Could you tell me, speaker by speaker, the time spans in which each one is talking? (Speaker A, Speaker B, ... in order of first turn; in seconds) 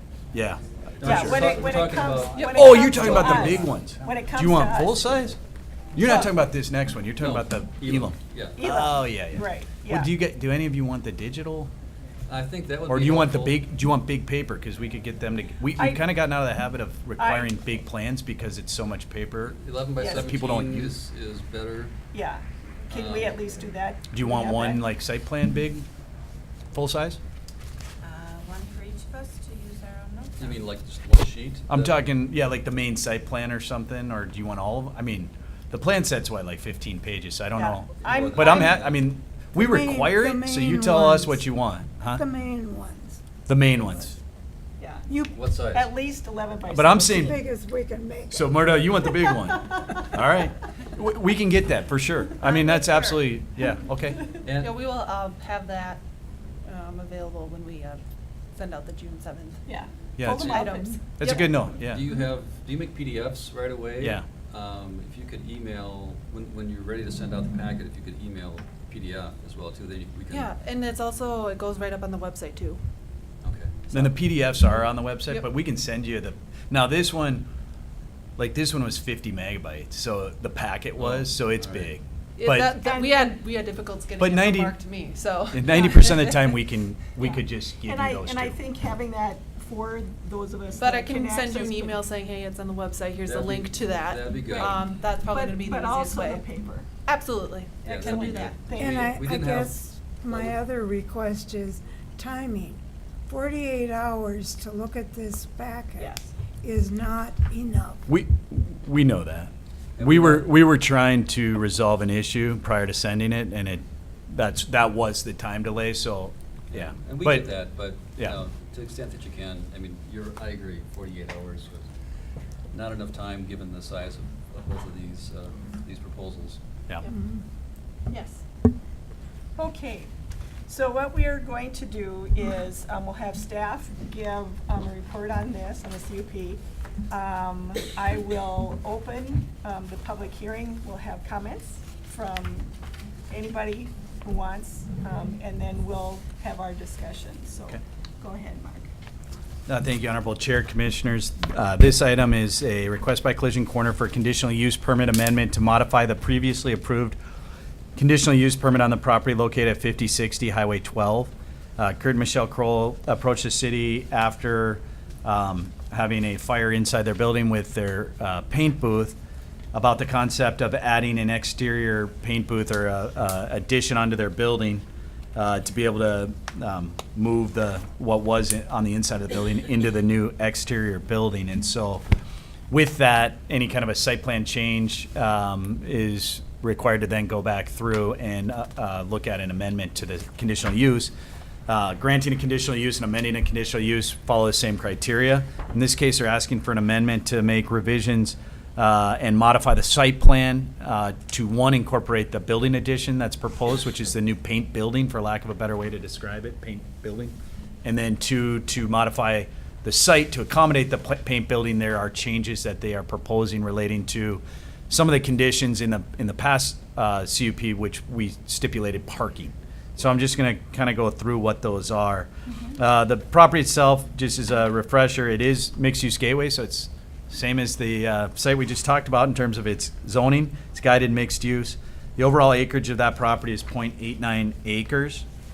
Speaker A: 0.3-1.6, 2.4-5.4, 5.9-11.7, 12.9-20.9, 24.1-25.9, 26.7-27.2, 31.7-42.2, 43.5-44.2, 46.7-47.4, 48.3-54.3, 60.2-60.7, 61.2-62.0, 64.0-64.2, 73.9-77.5, 78.4-82.7, 84.2-84.8, 85.5-88.6, 108.1-117.5, 149.7-157.2, 158.0-169.2, 169.7-182.0, 182.7-191.1, 191.7-235.2
Speaker B: 1.0-3.8, 7.2-8.6, 12.3-13.6, 19.4-21.9, 22.9-23.6, 30.4-32.0, 38.0-38.9, 45.3-45.9, 54.4-54.7, 61.8-70.5, 73.4-73.8, 81.0-81.9, 93.2-94.8, 97.8-100.5, 110.0-110.5, 116.7-121.9, 122.7-126.6
Speaker C: 1.0-5.1, 6.0-6.3, 8.5-10.1, 15.8-16.1, 17.2-17.5, 20.0-20.4, 22.1-24.9, 28.0-30.6, 37.5-38.8, 44.8-45.1, 45.7-47.3, 52.5-53.2, 59.7-61.5, 82.8-83.4, 87.8-92.0, 94.5-96.9, 97.8-99.2, 106.0-106.3, 128.1-128.4, 129.5-130.1, 130.7-142.7, 143.3-148.9
Speaker D: 39.5-41.5, 42.1-43.2, 45.1-45.4, 47.1-49.2, 98.8-108.1, 127.1-127.4
Speaker E: 54.5-56.0, 56.7-58.0, 58.5-61.0, 70.3-72.8, 74.7-75.5, 82.4-86.6, 90.8-96.5, 97.1-98.6